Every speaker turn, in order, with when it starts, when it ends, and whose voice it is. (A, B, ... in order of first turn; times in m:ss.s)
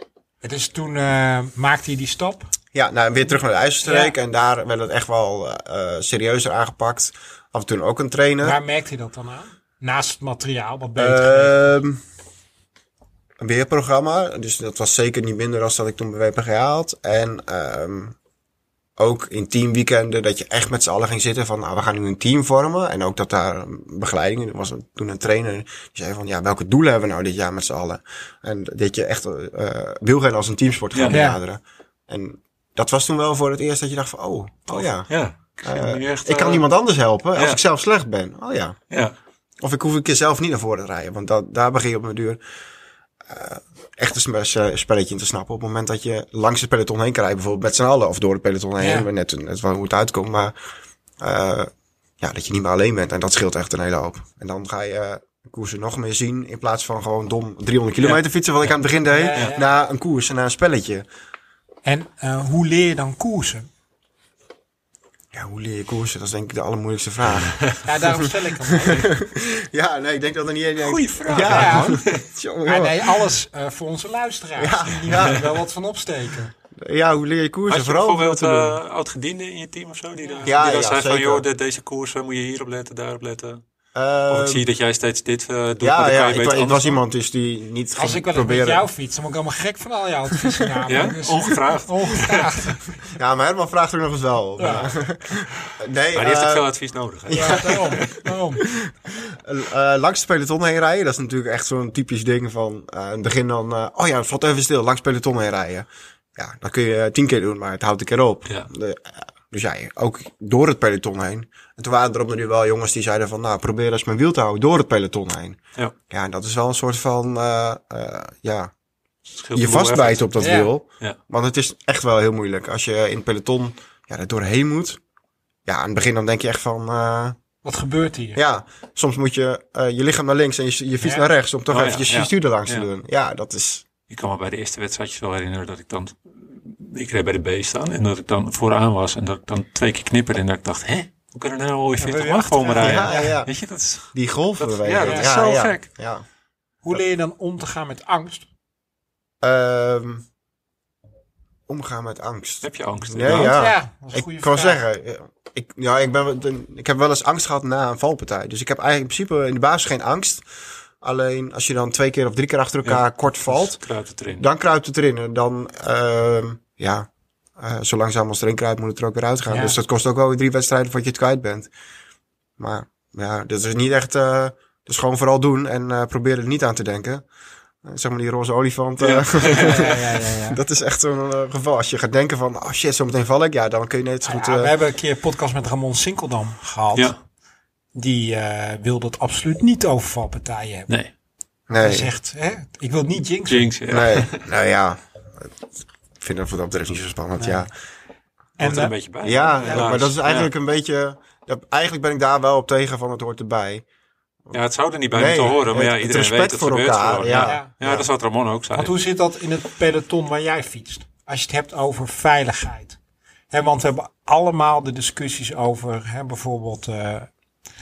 0:00.4-0:02.5 A
0:02.7-0:08.6 B
0:03.8-0:04.2 A
0:08.4-0:11.8 A
0:11.0-0:12.0 B
0:13.4-0:18.2 B
0:19.0-0:35.1 B
0:30.9-0:31.2 C
0:31.1-0:31.4 A
0:34.7-0:36.7 C
0:35.6-0:38.8 B
0:39.6-0:42.4 B
0:43.3-0:50.6 B
0:48.8-0:49.1 A
0:51.2-1:01.1 B
0:59.1-0:59.7 A
1:01.8-1:03.7 A
1:05.3-1:13.3 B
1:07.4-1:07.8 C
1:07.8-1:09.1 A
1:10.8-1:12.2 C
1:11.3-1:12.0 A
1:12.7-1:16.5 A
1:14.6-1:15.5 B
1:16.7-1:18.8 B
1:17.7-1:23.6 C
1:20.2-1:20.5 A
1:20.4-1:21.4 B
1:24.0-1:24.6 B
1:24.3-1:27.0 C
1:25.8-1:28.9 B
1:28.0-1:32.8 A
1:30.9-1:32.7 C
1:33.1-1:36.7 B
1:34.6-1:35.0 A
1:36.1-1:38.3 C
1:37.2-1:38.0 B
1:37.3-1:38.7 A
1:38.6-1:55.6 B
1:56.1-1:58.7 B
1:59.4-2:00.4 C
1:59.5-2:05.0 B
2:00.4-2:00.7 A
2:05.7-2:07.4 B
2:07.6-2:08.4 A
2:08.4-2:13.9 B
2:11.0-2:11.3 A
2:11.7-2:12.9 C
2:14.1-2:25.9 C
2:22.0-2:23.4 A
2:22.8-2:23.5 B
2:24.1-2:26.2 B
2:25.0-2:25.3 A
2:26.8-2:28.5 A
2:29.4-2:30.3 B
2:31.7-2:40.4 B
2:32.6-2:33.6 C
2:33.3-2:34.8 A
2:41.0-2:43.8 B
2:42.8-2:44.4 C
2:44.4-2:51.7 B
2:49.5-2:49.8 A
2:52.6-2:57.3 B
2:57.8-3:04.7 B
2:59.0-3:00.0 C
2:59.4-3:00.6 A
3:04.2-3:07.1 A
3:08.0-3:10.9 A
3:11.7-3:12.1 B
3:11.8-3:13.7 A
3:13.5-3:14.4 C
3:13.9-3:15.5 B
3:16.2-3:17.7 B
3:17.4-3:17.7 A
3:18.6-3:20.0 A
3:18.6-3:20.5 C
3:19.2-3:23.8 B
3:24.5-3:28.9 C
3:25.1-3:28.1 B
3:27.4-3:27.7 A
3:28.8-3:33.0 A
3:33.5-3:37.3 A